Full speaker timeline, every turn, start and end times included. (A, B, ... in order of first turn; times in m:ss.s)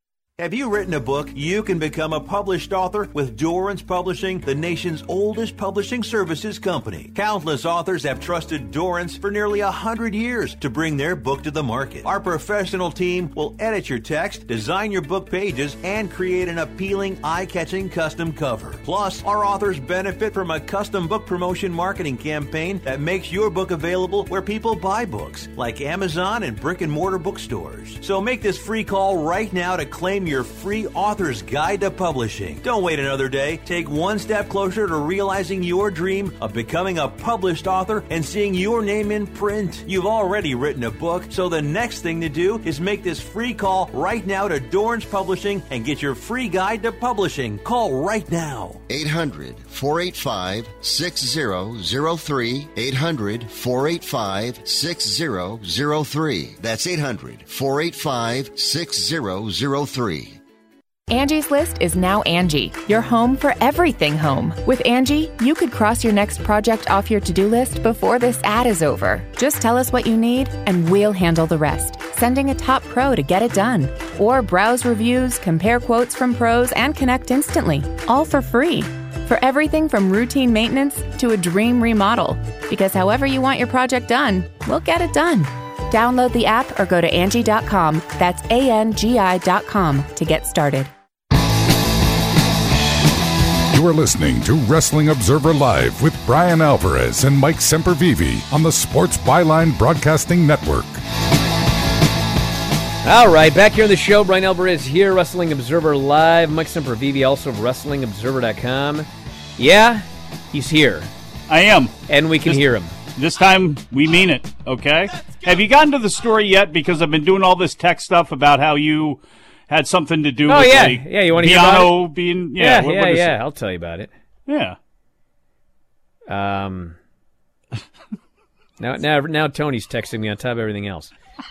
0:00.4-0:48.8 A
0:48.9-1:00.4 B
1:01.1-1:30.9 C
1:33.7-1:41.0 D
1:43.0-1:51.1 E
1:51.5-1:51.9 F
1:52.1-1:52.9 E
1:53.2-2:03.4 F
2:00.5-2:04.1 E
2:04.5-2:04.8 F
2:06.3-2:07.0 E
2:08.8-2:11.1 E